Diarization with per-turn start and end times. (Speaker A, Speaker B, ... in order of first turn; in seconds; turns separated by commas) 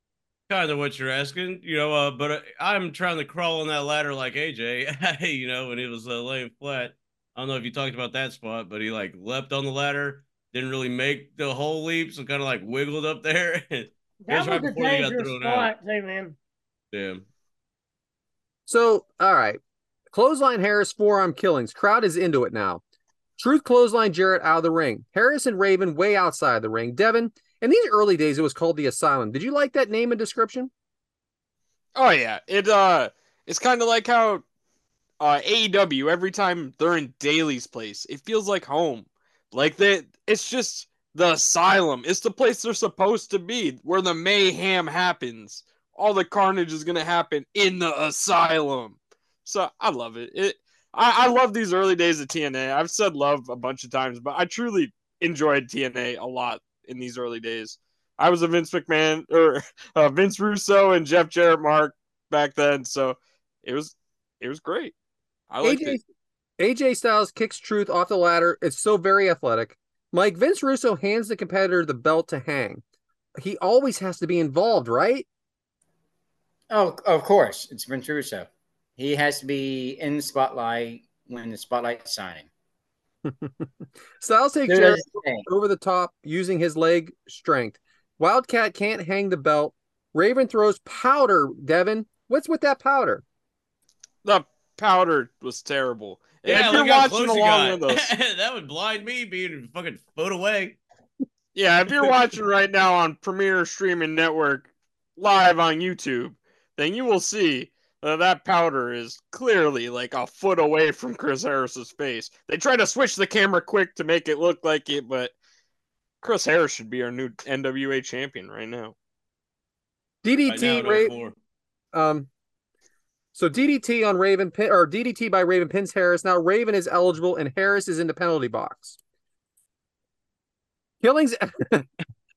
Speaker A: 0.5-15.7, Speaker B: 14.2-16.4, Speaker A: 16.9-17.2, Speaker C: 18.7-19.6, Speaker C: 20.1-22.8, Speaker C: 23.4-30.7, Speaker D: 31.9-34.4, Speaker D: 35.2-64.9, Speaker D: 65.5-66.0, Speaker C: 65.6-66.0, Speaker C: 66.6-72.8, Speaker C: 73.4-75.2, Speaker E: 76.7-82.5, Speaker C: 83.2-93.2, Speaker E: 84.7-85.5, Speaker D: 94.2-98.1, Speaker A: 96.4-100.8, Speaker D: 101.5-115.3, Speaker D: 116.2-118.9, Speaker C: 120.2-121.1, Speaker A: 120.5-121.3, Speaker C: 121.9-122.3, Speaker C: 123.3-129.0, Speaker C: 131.0-131.9